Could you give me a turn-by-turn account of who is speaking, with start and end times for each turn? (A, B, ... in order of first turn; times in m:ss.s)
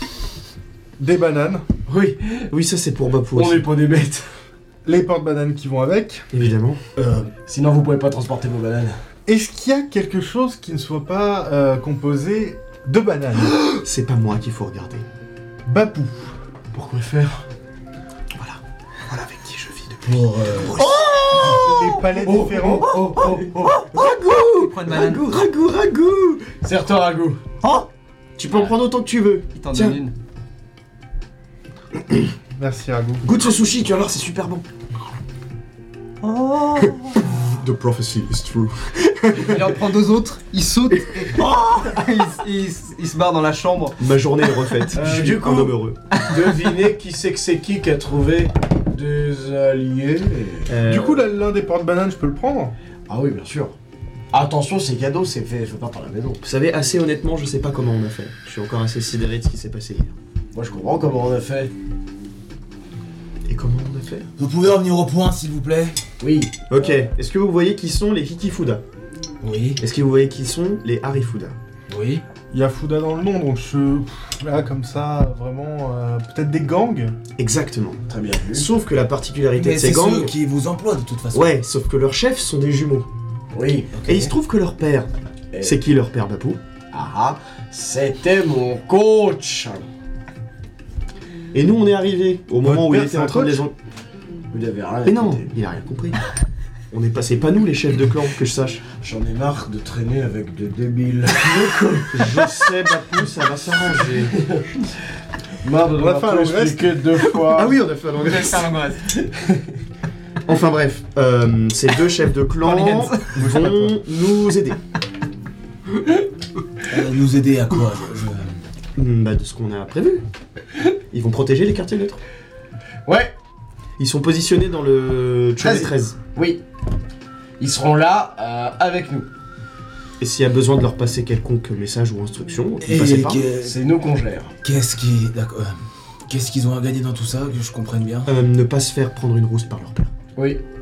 0:01.0-0:01.6 A
0:01.9-0:02.5 B
0:02.5-0:03.7 C
0:03.3-0:04.3 B
0:04.8-0:06.3 A
0:06.3-0:06.8 C
0:07.0-0:07.3 D
0:07.5-0:09.0 B
0:09.3-0:13.6 A
0:13.8-0:15.1 C
0:15.7-0:16.3 A
0:16.7-0:17.4 B
0:18.3-0:22.0 C
0:20.0-0:20.8 D
0:20.8-0:21.6 B
0:21.4-0:23.0 A
0:22.1-0:23.9 B
0:22.9-0:26.6 C
0:24.5-0:25.3 E
0:26.6-0:27.4 B
0:28.4-0:30.0 C
0:29.6-0:30.1 E
0:32.6-0:33.3 A
0:33.2-0:34.6 C
0:36.8-0:39.7 C
0:39.4-0:44.0 E
0:40.9-0:42.1 C
0:44.0-0:46.0 C
0:44.9-0:50.8 B
0:46.2-0:46.4 E
0:50.7-0:51.2 C
0:50.9-0:52.7 A
0:53.1-0:53.8 B
0:54.3-0:56.4 B
0:56.4-1:00.1 C
1:00.5-1:01.7 B
1:03.5-1:04.3 C
1:04.4-1:06.0 D
1:06.2-1:06.9 B
1:06.7-1:08.8 C
1:09.4-1:09.8 D
1:09.8-1:11.6 C
1:11.9-1:12.2 D
1:12.5-1:17.2 A
1:17.4-1:18.0 C
1:18.1-1:18.7 B
1:18.5-1:20.3 C
1:19.6-1:21.5 D
1:21.3-1:23.1 C
1:23.5-1:24.3 B
1:24.1-1:26.6 C
1:25.5-1:25.8 B
1:26.9-1:29.9 B
1:31.5-1:33.7 C
1:32.6-1:33.6 A
1:34.5-1:35.5 B
1:35.0-1:36.2 C
1:36.9-1:38.8 C
1:39.0-1:42.5 B
1:41.5-1:44.4 C
1:44.4-1:44.8 B
1:45.6-1:47.8 B
1:46.0-1:47.0 A
1:47.4-1:48.8 C
1:48.2-1:49.2 E
1:50.5-1:54.8 C
1:52.6-1:53.3 E
1:53.4-1:54.0 A
1:56.9-1:58.6 D
1:59.0-2:00.2 C
2:01.1-2:02.2 C
2:03.1-2:03.3 B
2:04.0-2:06.2 C
2:05.6-2:06.6 B
2:07.6-2:09.3 B
2:10.2-2:13.5 C
2:12.8-2:13.8 D
2:13.6-2:14.6 B
2:14.6-2:18.3 D
2:18.3-2:20.1 C
2:20.4-2:20.6 B